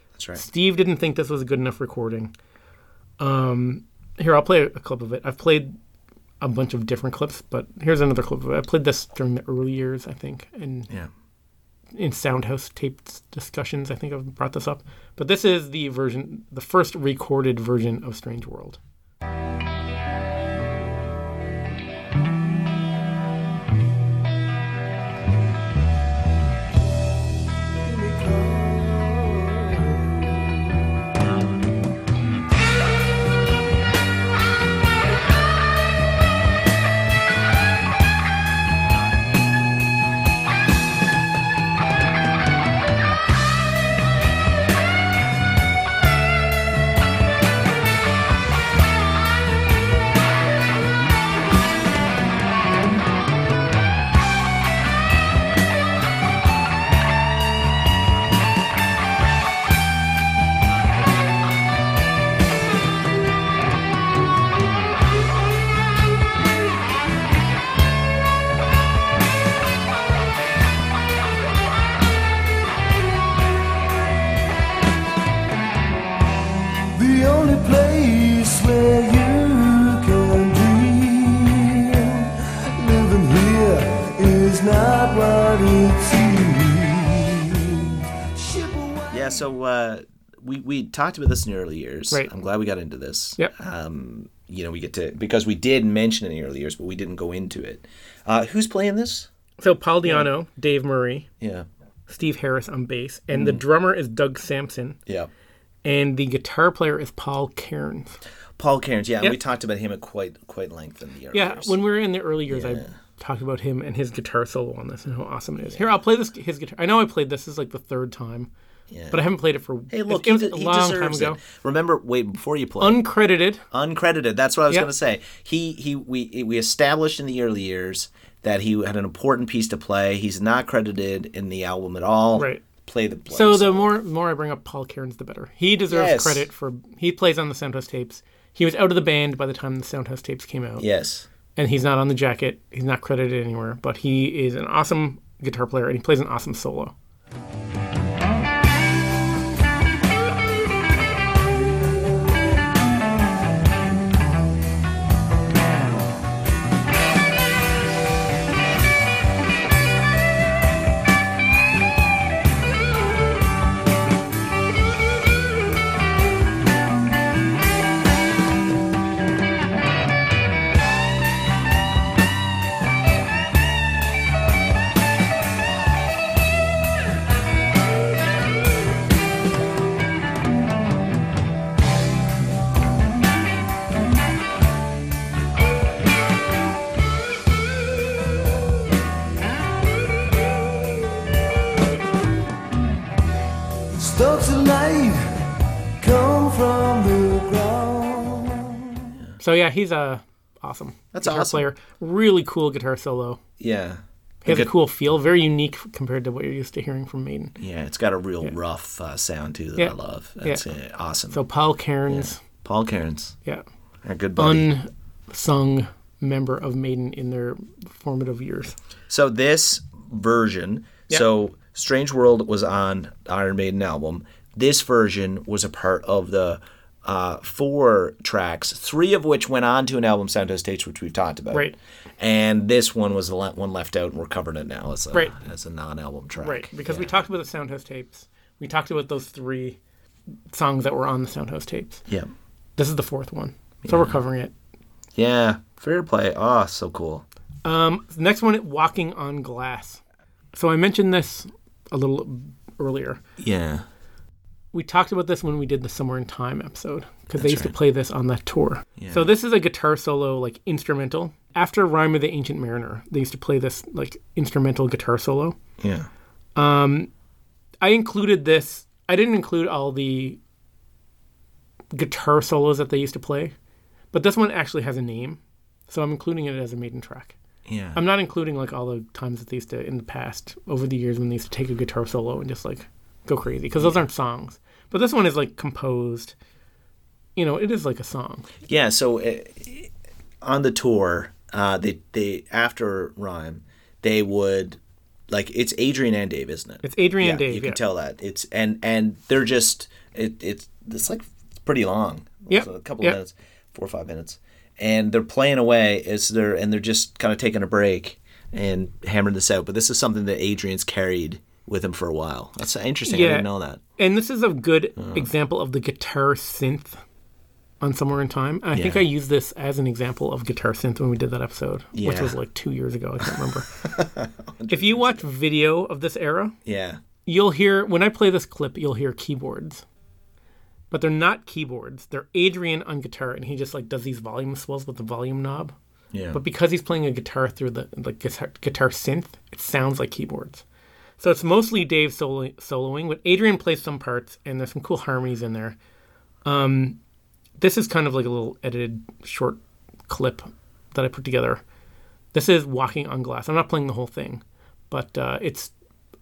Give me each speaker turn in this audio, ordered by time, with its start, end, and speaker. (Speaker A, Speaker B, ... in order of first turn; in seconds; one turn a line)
Speaker A: 0.1-0.4
Speaker B: 0.3-2.3
Speaker B: 3.2-5.7
Speaker B: 6.4-10.9
Speaker B: 11.9-18.8
Speaker C: 28.0-30.0
Speaker C: 76.9-89.3
Speaker A: 89.1-99.3
Speaker B: 99.6-101.3
Speaker A: 100.0-100.3
Speaker A: 101.4-101.7
Speaker B: 102.1-105.0
Speaker A: 103.3-103.6
Speaker B: 105.8-108.2
Speaker A: 108.6-111.8
Speaker B: 111.3-118.5
Speaker A: 112.5-112.9
Speaker A: 115.6-116.0
Speaker A: 118.9-119.2
Speaker B: 119.1-121.4
Speaker A: 119.9-123.0
Speaker B: 122.8-123.6
Speaker A: 123.7-133.8
Speaker B: 132.3-132.6
Speaker B: 133.3-140.8
Speaker A: 135.9-136.4
Speaker A: 140.8-141.3
Speaker B: 141.6-146.9
Speaker C: 193.9-195.4
Speaker C: 196.0-198.9
Speaker B: 199.4-203.4
Speaker A: 201.1-201.6
Speaker A: 203.6-204.7
Speaker B: 204.4-207.6
Speaker A: 207.6-211.4
Speaker B: 209.8-210.7
Speaker B: 211.3-212.4
Speaker A: 212.1-213.3
Speaker A: 214.0-214.7
Speaker B: 214.4-218.8
Speaker A: 219.1-237.2
Speaker B: 236.4-239.8
Speaker B: 240.5-242.0
Speaker B: 242.8-244.5
Speaker A: 243.8-244.2
Speaker A: 245.2-247.2
Speaker B: 247.6-250.0
Speaker B: 250.5-253.2
Speaker A: 253.4-253.8
Speaker B: 254.7-265.6
Speaker A: 257.3-257.7
Speaker A: 259.0-259.3
Speaker A: 265.8-266.1
Speaker B: 266.6-267.1
Speaker B: 267.8-270.4
Speaker B: 271.9-273.5
Speaker B: 274.1-277.4
Speaker A: 277.6-278.0
Speaker B: 277.9-286.3
Speaker B: 287.4-288.5
Speaker A: 288.6-289.9
Speaker A: 290.4-313.8
Speaker B: 296.8-297.8
Speaker B: 302.5-303.2
Speaker B: 313.1-317.0
Speaker A: 315.0-315.3
Speaker B: 317.8-323.8
Speaker A: 318.7-319.0
Speaker A: 321.9-322.4
Speaker A: 323.8-325.2
Speaker B: 324.7-326.5
Speaker A: 326.6-327.0
Speaker B: 327.2-329.8
Speaker B: 330.9-335.7
Speaker A: 336.1-336.4
Speaker B: 336.3-340.6
Speaker B: 341.2-345.8
Speaker B: 346.4-347.0
Speaker B: 347.6-351.6
Speaker B: 352.3-355.7